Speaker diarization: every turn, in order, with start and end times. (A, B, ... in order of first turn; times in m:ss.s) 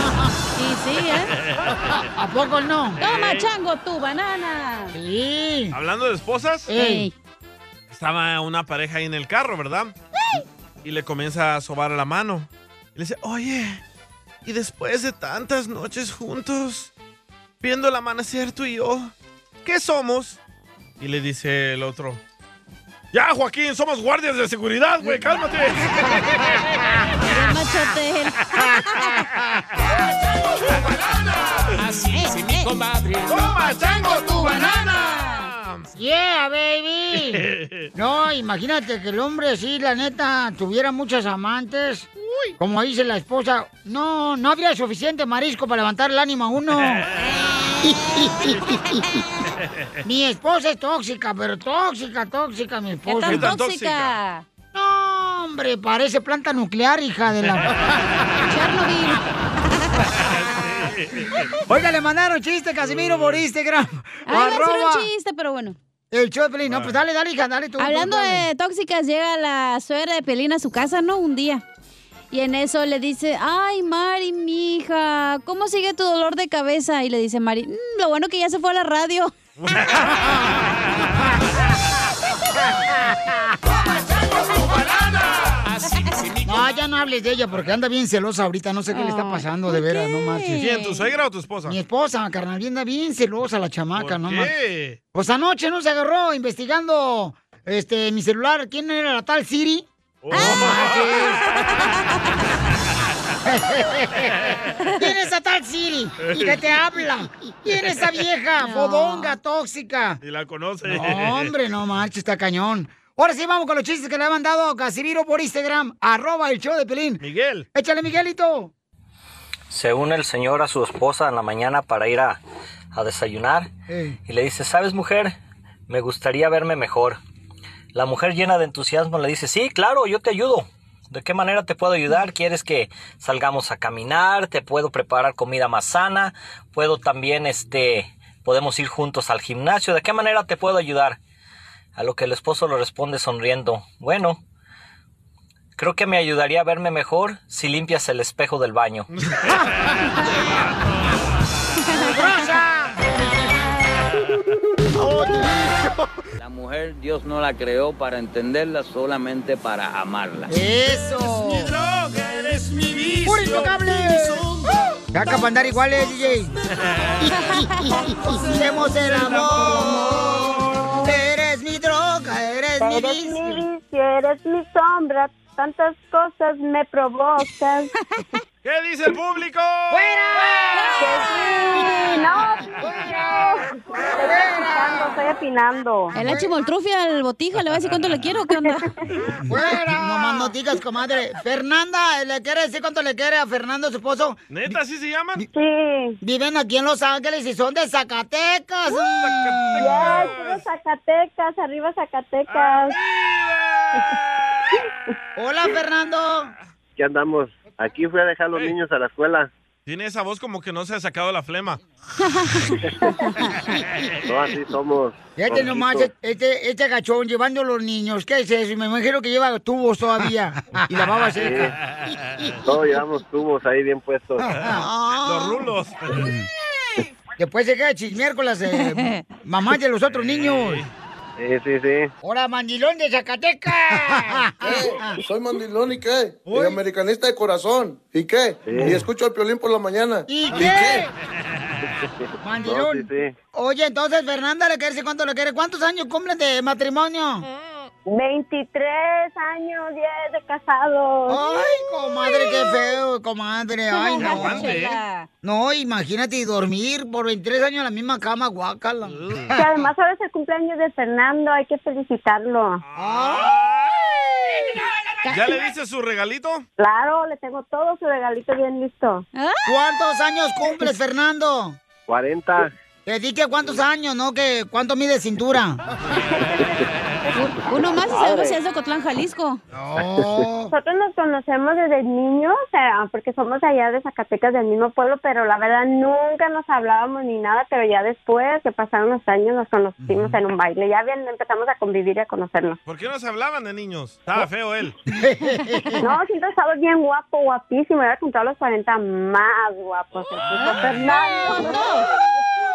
0:00.6-0:01.3 A
0:01.1-0:01.8 B
0:02.2-0:03.0 C
0:03.0-0:03.5 B
0:03.0-0:04.9 A
0:04.9-0:05.7 C
0:05.7-0:06.7 B
0:06.7-0:07.1 C
0:06.7-0:07.1 A
0:07.9-0:09.9 B
0:10.8-0:13.8 B
0:14.4-0:16.9 B
0:17.6-0:19.1 B
0:19.6-0:20.4 B
0:21.0-0:22.2 B
0:23.1-0:26.4 B
0:27.3-0:29.2 A
0:31.8-0:33.4 D
0:32.1-0:32.7 A
0:33.3-0:35.9 B
0:34.3-0:35.5 A
0:35.9-0:37.4 C
0:37.3-0:37.9 B
0:37.9-0:47.0 C
0:42.2-0:42.5 B
0:47.8-0:48.5 A
0:50.0-0:53.5 C
0:53.0-0:54.4 A
0:53.3-0:54.2 B
0:54.7-0:57.7 C
0:58.4-0:59.2 A
1:00.1-1:01.5 B
1:01.7-1:05.1 C
1:02.8-1:03.4 B
1:04.3-1:05.8 A
1:06.1-1:08.4 C
1:06.7-1:06.9 B
1:07.8-1:11.6 A
1:12.3-1:19.3 A
1:19.6-1:21.0 B
1:25.6-1:26.8 D
1:26.4-1:30.6 C
1:28.9-1:31.0 A
1:30.6-1:31.8 B
1:31.7-1:34.5 C
1:33.9-1:35.0 B
1:35.1-1:41.4 C
1:40.2-1:41.4 B
1:40.3-1:40.8 A
1:43.4-1:50.2 C
1:46.2-1:46.6 B
1:48.6-1:49.4 A
1:50.2-1:51.5 B
1:50.9-1:57.2 C
1:57.2-1:57.6 B
1:57.7-1:58.7 C
1:59.7-2:02.4 E
2:02.9-2:03.7 E
2:03.9-2:04.2 C
2:04.2-2:05.3 E
2:05.9-2:07.2 E
2:07.9-2:21.2 E
2:22.0-2:24.4 E
2:25.8-2:29.1 E
2:29.2-2:29.7 B
2:31.9-2:33.2 C
2:35.1-2:35.5 C
2:36.4-2:40.5 F
2:40.5-2:41.7 C
2:41.3-2:44.5 B
2:43.2-2:44.4 C
2:45.1-2:46.5 C
2:46.8-2:47.4 B
2:47.3-2:47.9 A
2:48.2-2:50.3 C
2:48.8-2:50.9 B
2:51.0-2:53.6 C
2:52.8-2:57.9 G
2:58.6-3:00.1 B
2:59.9-3:01.1 C
3:00.7-3:02.2 A
3:01.0-3:06.2 G
3:04.2-3:05.1 C
3:06.1-3:08.9 A
3:06.2-3:06.5 C
3:09.4-3:14.8 C
3:14.5-3:15.4 B
3:15.5-3:16.2 G
3:16.2-3:20.2 C
3:18.9-3:20.6 B
3:19.8-3:23.0 G
3:22.5-3:24.7 B
3:25.4-3:26.5 C
3:27.0-3:29.5 H
3:29.8-3:31.8 B
3:32.4-3:32.7 A
3:34.3-3:36.1 H
3:35.4-3:41.7 C
3:41.4-3:41.7 H
3:42.1-3:42.5 B
3:42.6-3:44.7 H
3:44.4-3:46.4 C
3:45.2-3:46.3 B
3:47.4-3:50.8 C
3:48.8-3:49.2 A
3:50.1-3:50.9 B
3:51.4-3:52.1 H
3:52.2-3:55.2 C
3:54.6-4:01.0 I
3:56.5-3:56.8 B
3:58.6-3:59.0 H
4:00.3-4:01.1 C
4:02.4-4:07.4 C
4:02.6-4:03.3 H
4:08.1-4:11.8 G
4:11.3-4:14.8 C
4:13.9-4:15.3 A
4:14.2-4:15.0 B
4:15.4-4:19.6 C
4:19.1-4:19.5 B
4:19.5-4:22.8 G
4:22.9-4:24.0 B
4:23.0-4:23.5 C
4:25.2-4:25.5 A
4:25.3-4:26.6 B
4:26.8-4:29.2 G
4:29.3-4:29.7 A
4:29.6-4:31.8 C
4:32.1-4:32.7 H
4:33.0-4:35.8 C
4:37.3-4:39.6 A
4:37.9-4:38.6 H
4:39.7-4:40.7 C
4:40.2-4:40.4 H
4:40.7-4:52.8 G
4:52.8-4:55.0 B
4:55.1-4:56.0 C
4:56.0-5:02.0 G
5:00.6-5:02.0 A